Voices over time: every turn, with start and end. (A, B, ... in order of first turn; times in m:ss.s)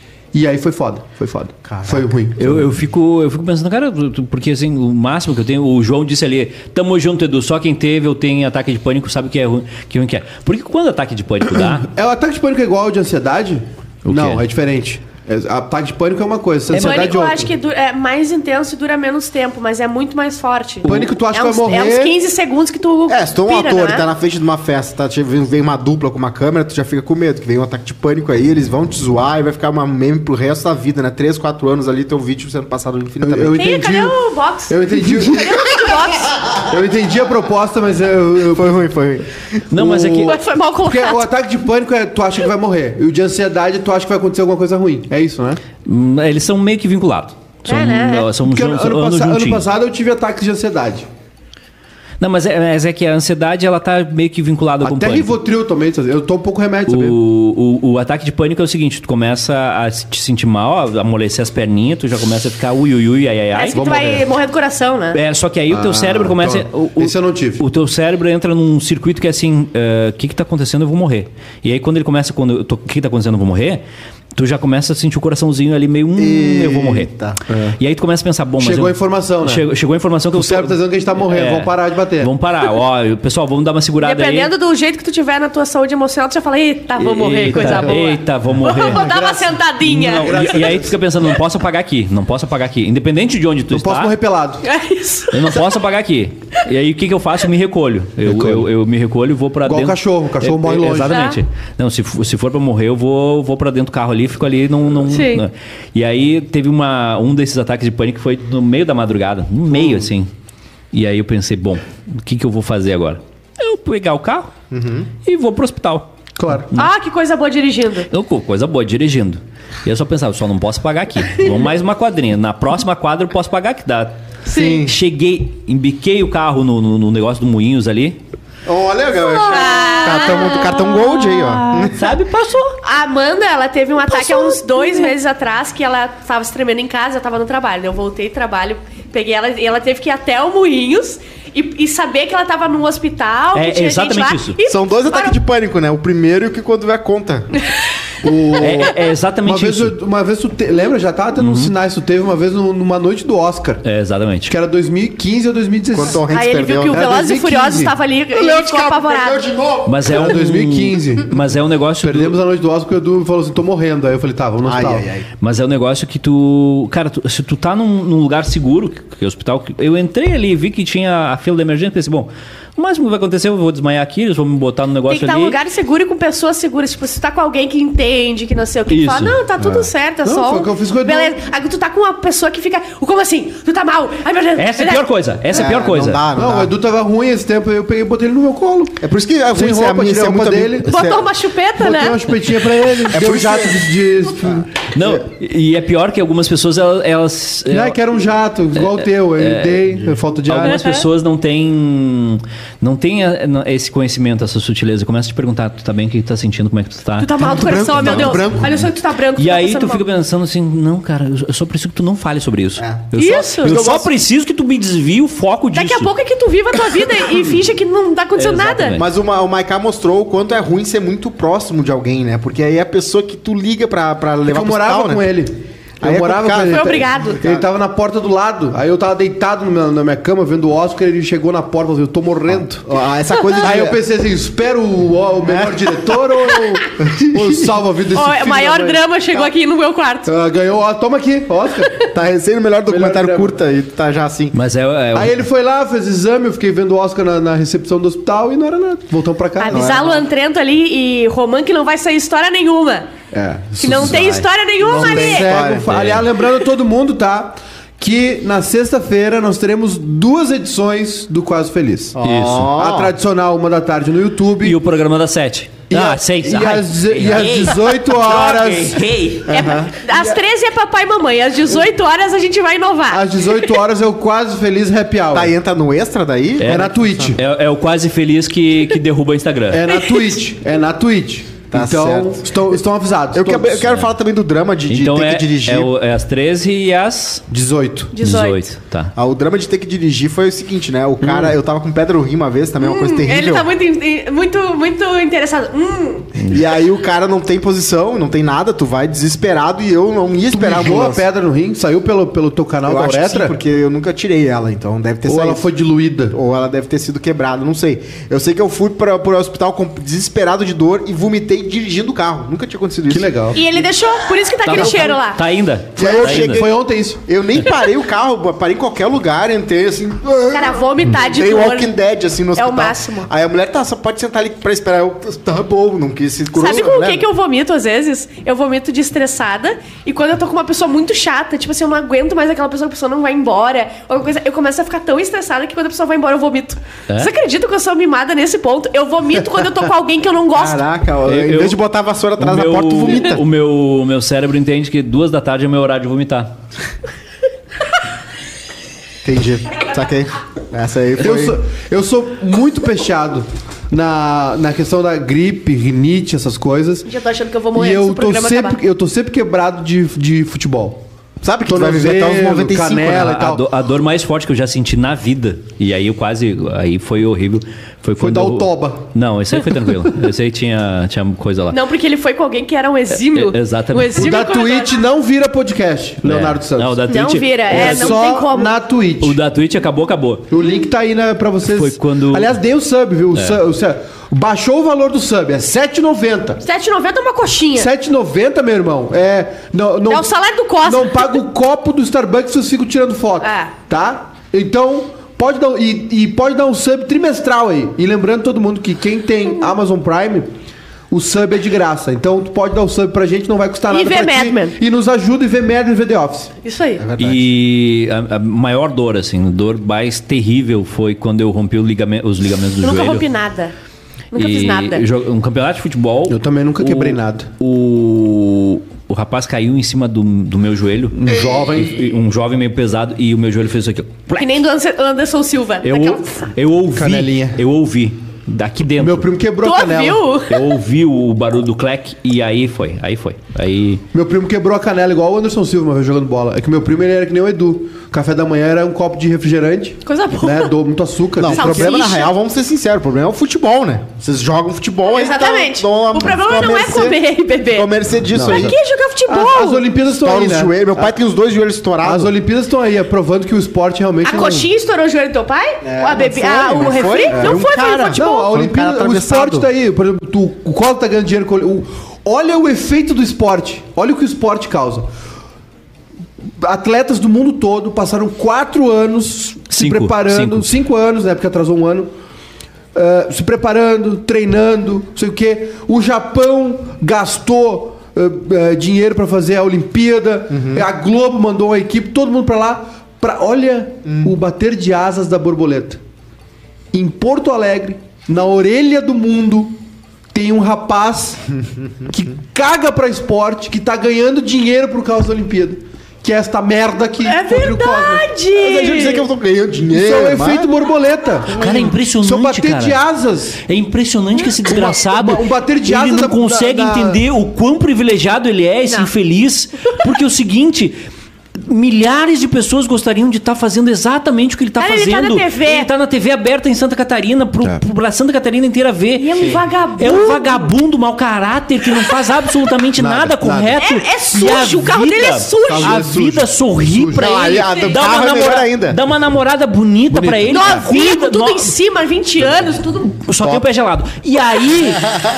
0:00.3-0:02.7 A
0:01.6-0:02.1 B
0:02.4-0:11.9 C
0:11.7-0:17.5 A
0:14.0-0:14.4 C
0:16.7-0:17.2 C
0:16.7-0:24.1 D
0:20.8-0:22.2 A
0:23.1-0:33.6 B
0:33.2-0:34.2 A
0:33.6-0:36.3 D
0:34.7-0:35.7 A
0:36.6-0:38.8 A
0:38.5-0:39.6 B
0:39.7-0:40.4 C
0:39.7-0:45.6 A
0:40.1-0:41.2 D
0:45.8-0:49.6 C
0:47.7-0:48.3 D
0:48.4-0:51.1 A
0:52.2-0:55.4 C
0:54.8-0:57.2 A
0:56.9-1:03.8 C
1:03.5-1:05.2 D
1:03.7-1:04.3 A
1:05.1-1:13.8 C
1:05.7-1:07.6 A
1:14.3-1:17.1 C
1:16.2-1:17.4 B
1:17.5-1:17.8 A
1:17.8-1:24.5 C
1:18.6-1:19.6 A
1:20.3-1:22.3 A
1:24.0-1:30.6 D
1:27.0-1:29.1 C
1:27.5-1:28.0 A
1:28.7-1:31.0 A
1:29.8-1:34.1 C
1:33.7-1:34.7 A
1:34.6-1:35.7 D
1:35.3-1:50.3 C
1:38.2-1:38.7 A
1:39.6-1:41.3 A
1:41.1-1:41.4 D
1:45.1-1:45.4 D
1:50.9-1:54.5 C
1:54.7-1:55.1 B
1:55.2-1:56.1 C
1:56.4-1:56.7 A
1:56.7-1:58.1 D
1:58.1-2:04.2 C
2:04.5-2:04.9 D
2:04.5-2:04.9 B
2:04.8-2:08.2 C
2:08.6-2:12.0 B
2:09.4-2:11.0 D
2:10.0-2:12.8 C
2:12.8-2:25.4 D
2:14.1-2:15.1 C
2:23.5-2:24.6 C
2:24.7-2:27.5 B
2:28.2-2:33.8 A
2:28.6-2:30.0 C
2:31.4-2:31.7 C
2:33.8-2:34.5 C
2:34.5-2:36.2 A
2:35.9-2:37.1 B
2:36.3-2:39.5 D
2:36.9-2:37.9 A
2:38.3-2:40.0 B
2:39.8-2:42.4 C
2:40.0-2:41.3 A
2:42.0-2:45.1 A
2:44.6-2:45.3 B
2:45.4-2:55.6 C
2:55.1-3:05.1 D
2:58.9-2:59.4 C
2:59.6-2:59.9 B
3:00.2-3:01.4 A
3:04.6-3:06.2 C
3:05.5-3:06.7 B
3:06.3-3:09.0 A
3:09.0-3:11.2 B
3:09.5-3:10.9 A
3:10.8-3:12.2 D
3:11.8-3:14.7 A
3:13.1-3:13.9 B
3:14.4-3:15.2 B
3:14.9-3:18.0 C
3:17.7-3:20.8 A
3:18.7-3:36.1 C
3:20.6-3:21.0 D
3:27.2-3:30.0 D
3:27.4-3:28.9 B
3:33.2-3:33.8 D
3:33.6-3:34.1 B
3:35.7-3:39.0 D
3:38.4-3:39.1 C
3:38.9-3:45.3 B
3:44.4-3:52.9 A
3:46.0-3:47.6 B
3:46.6-3:47.4 D
3:52.8-3:54.0 B
3:53.3-3:53.6 D
3:53.6-3:59.0 A
3:55.4-3:56.0 B
3:57.0-3:57.6 B
3:58.1-4:00.3 D
4:00.3-4:02.0 A
4:02.1-4:04.5 B
4:02.8-4:03.6 A
4:04.5-4:05.4 C
4:05.1-4:09.8 A
4:09.6-4:13.1 D
4:09.7-4:10.2 B
4:13.3-4:14.2 A
4:13.8-4:15.6 D
4:13.8-4:16.2 B
4:14.8-4:22.2 A
4:22.1-4:23.1 B
4:22.2-4:22.7 C
4:22.7-4:24.8 A
4:24.6-4:29.6 C
4:25.9-4:29.0 A
4:29.5-4:29.9 B
4:29.5-4:33.6 D
4:33.1-4:35.5 A
4:35.3-4:37.4 B
4:36.6-4:39.9 C
4:36.6-4:37.4 A
4:39.7-4:43.9 A
4:41.7-4:42.4 B
4:43.3-4:45.9 B
4:44.8-4:47.4 C
4:47.5-4:48.1 A
4:48.1-4:48.6 D
4:48.2-4:49.1 C
4:49.2-4:53.7 B
4:51.2-4:51.5 A
4:52.8-4:56.4 D
4:56.5-5:01.2 B
5:00.5-5:03.6 A
5:02.8-5:05.6 B
5:05.2-5:06.4 A
5:06.3-5:13.3 B
5:13.1-5:13.6 A
5:13.5-5:15.4 D
5:14.6-5:16.6 C
5:16.0-5:27.2 B
5:16.0-5:17.2 A
5:20.5-5:22.0 D
5:22.6-5:23.3 D
5:26.5-5:40.8 D
5:40.5-5:43.4 B
5:41.2-5:41.8 C
5:42.4-5:46.5 C
5:49.2-5:51.6 B
5:51.2-5:57.1 A
5:57.1-5:58.8 D
5:57.7-6:01.0 A
6:01.4-6:03.3 B
6:01.6-6:03.6 A
6:03.1-6:11.8 C
6:08.2-6:09.1 A
6:11.7-6:14.9 D
6:13.2-6:14.3 C
6:14.1-6:17.0 A
6:16.2-6:18.2 C
6:17.1-6:18.7 D
6:17.7-6:19.4 A
6:19.2-6:20.5 C
6:20.5-6:26.6 A
6:21.6-6:22.5 C
6:23.3-6:23.6 C
6:26.6-6:27.9 D
6:27.8-6:30.3 A
6:30.1-6:31.4 D
6:30.8-6:40.5 A
6:33.4-6:33.7 D
6:41.1-6:46.5 A
6:43.9-6:44.8 D
6:46.6-6:47.0 D
6:47.0-6:47.5 B
6:47.2-6:53.2 C
6:52.8-6:53.7 D
6:54.3-6:55.0 D
6:54.4-7:04.6 C
6:56.3-6:57.5 A
7:01.1-7:02.0 A
7:04.4-7:06.5 D
7:05.8-7:09.3 C
7:06.9-7:07.6 A
7:09.0-7:10.4 A
7:09.6-7:10.6 D
7:10.5-7:14.0 C
7:14.1-7:22.1 A
7:20.0-7:20.7 D
7:21.4-7:27.2 B
7:21.5-7:22.3 D
7:25.1-7:27.9 D
7:27.7-7:28.7 B
7:28.3-7:31.2 A
7:28.4-7:29.8 D
7:30.2-7:32.3 B
7:32.0-7:34.7 A
7:34.2-7:38.5 D
7:35.8-7:39.6 B
7:37.3-7:45.1 A
7:46.6-7:52.1 A
7:49.7-7:50.7 C
7:52.9-8:06.0 A
8:00.5-8:00.8 B
8:04.0-8:04.3 B
8:06.9-8:09.8 A
8:10.3-8:11.4 A
8:12.1-8:18.3 A
8:17.2-8:19.3 D
8:18.5-8:20.7 B
8:19.9-8:21.6 A
8:21.5-8:22.0 B
8:21.6-8:23.0 C
8:22.2-8:23.6 A
8:23.6-8:31.0 C
8:24.6-8:27.2 A
8:31.6-8:51.7 C
8:34.8-8:35.9 D
8:39.2-8:40.7 D
8:43.0-8:43.8 A
8:43.8-8:46.0 D
8:45.6-8:47.3 A
8:47.2-8:49.0 B
8:47.4-8:48.0 D
8:50.1-8:50.8 A
8:50.5-8:53.2 D
8:53.2-8:55.1 C